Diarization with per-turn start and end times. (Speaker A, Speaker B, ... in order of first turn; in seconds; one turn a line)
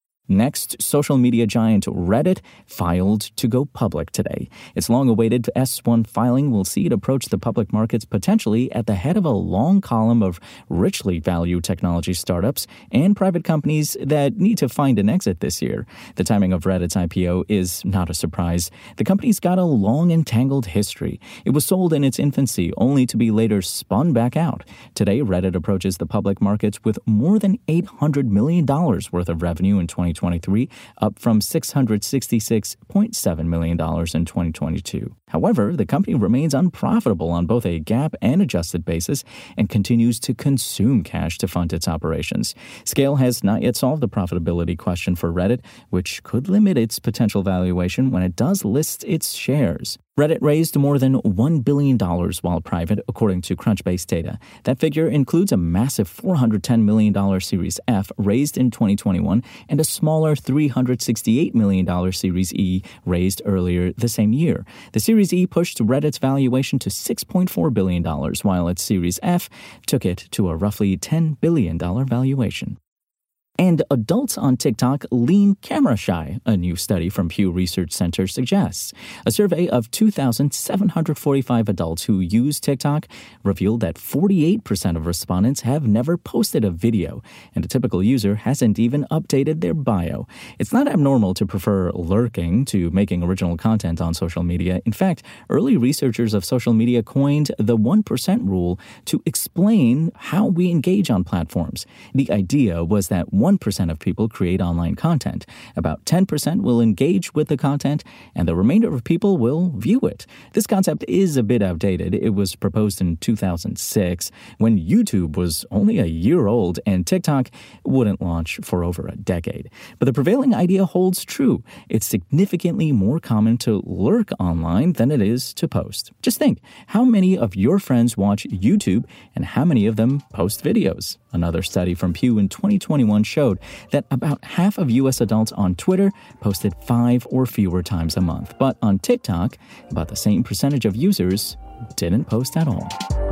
Speaker A: 0.3-72.8
Speaker A: 73.6-143.0